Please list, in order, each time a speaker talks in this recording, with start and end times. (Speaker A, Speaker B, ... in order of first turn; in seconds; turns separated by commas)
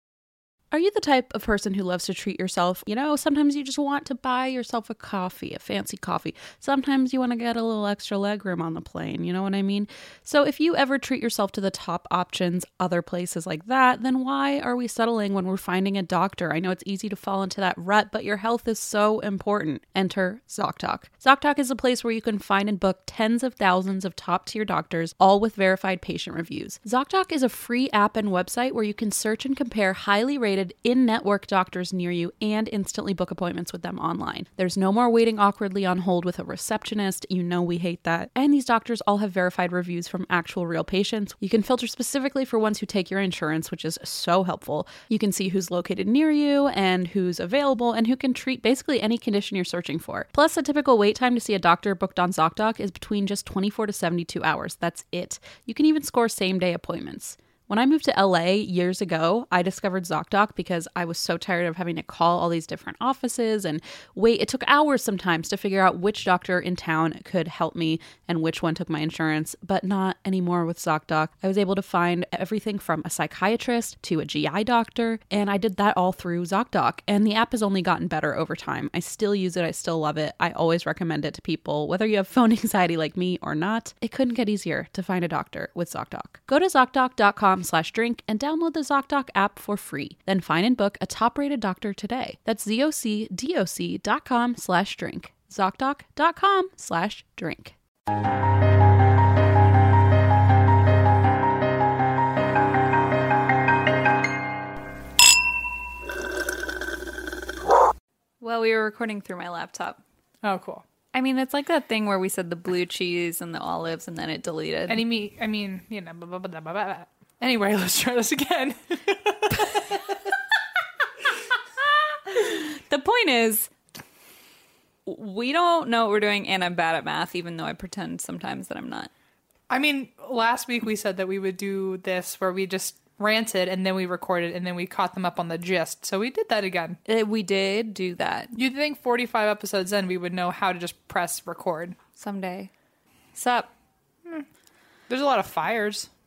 Speaker A: 0.7-97.7, Speaker B: 108.4-110.0, Speaker C: 110.4-110.8, Speaker B: 111.1-115.0, Speaker C: 114.9-120.0, Speaker B: 122.2-123.7, Speaker B: 125.0-129.1, Speaker C: 129.7-137.0, Speaker B: 137.1-138.5, Speaker C: 138.6-142.0, Speaker B: 142.2-142.7, Speaker B: 143.3-143.7, Speaker C: 145.1-146.1